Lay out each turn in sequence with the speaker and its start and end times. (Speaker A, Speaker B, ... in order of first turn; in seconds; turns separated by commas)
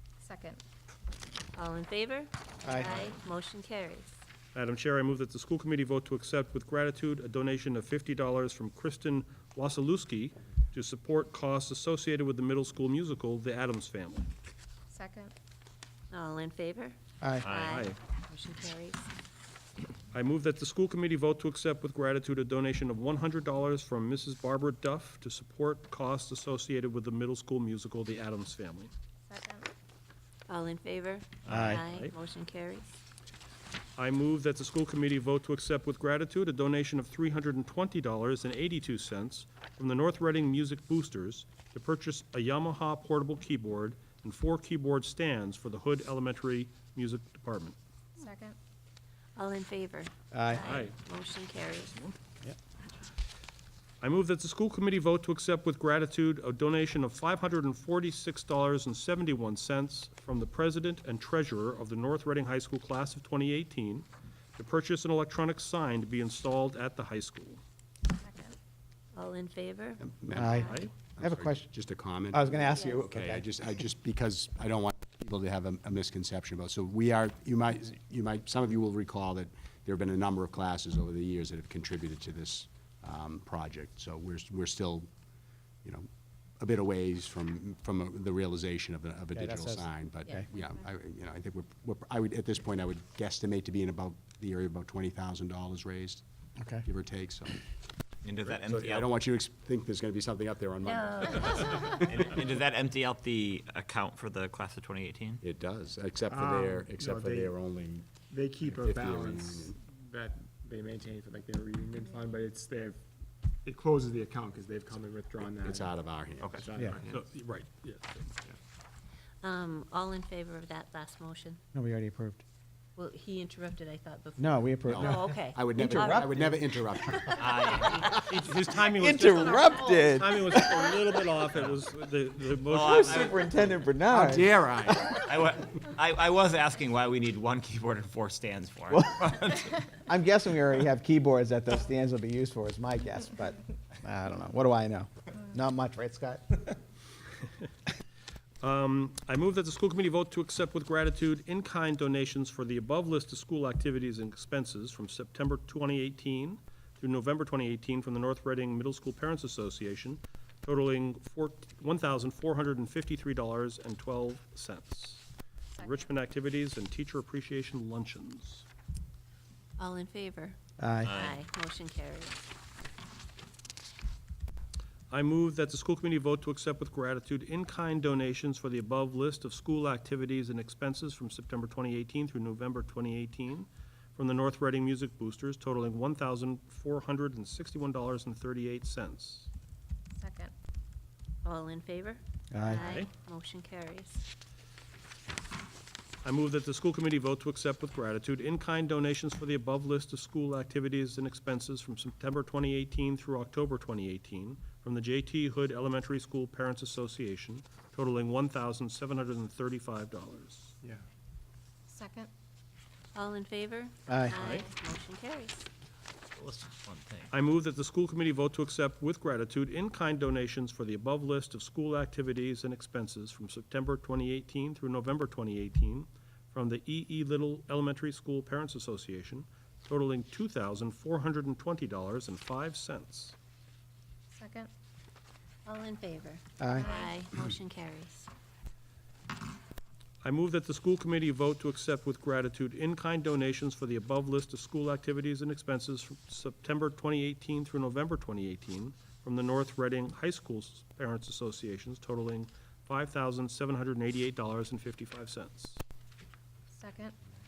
Speaker A: 0.2-0.6, Speaker B: 1.6-4.1, Speaker C: 2.6-3.0, Speaker D: 4.5-14.3, Speaker A: 14.9-15.3, Speaker B: 16.1-19.0, Speaker E: 17.4-17.8, Speaker D: 17.7-18.0, Speaker D: 20.1-28.9, Speaker A: 29.3-29.7, Speaker B: 30.5-32.9, Speaker C: 31.5-31.8, Speaker D: 31.7-32.1, Speaker D: 34.0-47.8, Speaker A: 48.2-48.6, Speaker B: 49.4-51.9, Speaker C: 50.3-50.6, Speaker D: 50.6-51.0, Speaker D: 51.7-52.2, Speaker D: 54.0-67.6, Speaker A: 68.1-68.6, Speaker B: 69.2-70.8, Speaker F: 70.0-85.1, Speaker C: 70.3-71.7, Speaker D: 70.6-70.9, Speaker C: 72.3-73.5, Speaker B: 72.7-73.0, Speaker F: 86.6-96.2, Speaker C: 89.3-90.5, Speaker F: 96.8-97.6, Speaker E: 98.2-99.1, Speaker F: 98.5-102.3, Speaker B: 100.8-102.0, Speaker E: 102.0-105.4, Speaker F: 105.4-108.1, Speaker G: 106.3-107.6, Speaker G: 108.1-113.0, Speaker F: 108.6-109.8, Speaker G: 113.7-117.3, Speaker F: 115.6-116.7, Speaker E: 116.4-116.7, Speaker D: 117.1-118.4, Speaker B: 119.4-121.6, Speaker C: 121.7-122.4, Speaker B: 123.0-126.5, Speaker C: 124.4-127.5, Speaker F: 124.9-128.0, Speaker E: 127.4-128.1, Speaker D: 128.2-133.5, Speaker C: 128.8-130.9, Speaker E: 131.5-131.8, Speaker E: 132.6-133.5, Speaker C: 132.9-135.3, Speaker E: 134.1-139.8, Speaker F: 134.1-135.0, Speaker C: 138.9-139.3, Speaker C: 140.1-146.8, Speaker D: 148.6-165.3, Speaker A: 165.8-166.1, Speaker D: 165.8-168.7, Speaker B: 169.8-170.6, Speaker C: 170.8-171.1, Speaker E: 171.0-171.4, Speaker B: 171.1-172.3, Speaker D: 175.1-189.5, Speaker A: 190.2-190.5, Speaker B: 191.4-194.2, Speaker C: 192.5-192.8, Speaker D: 192.7-193.1, Speaker D: 196.2-210.7, Speaker A: 211.9-212.3, Speaker B: 213.2-215.7, Speaker C: 214.1-214.3, Speaker D: 214.3-214.7, Speaker E: 216.3-217.3, Speaker D: 217.3-233.3, Speaker A: 234.3-234.7, Speaker B: 235.7-238.3, Speaker C: 236.6-236.9, Speaker A: 236.7-237.2, Speaker D: 240.2-255.8, Speaker A: 256.7-257.1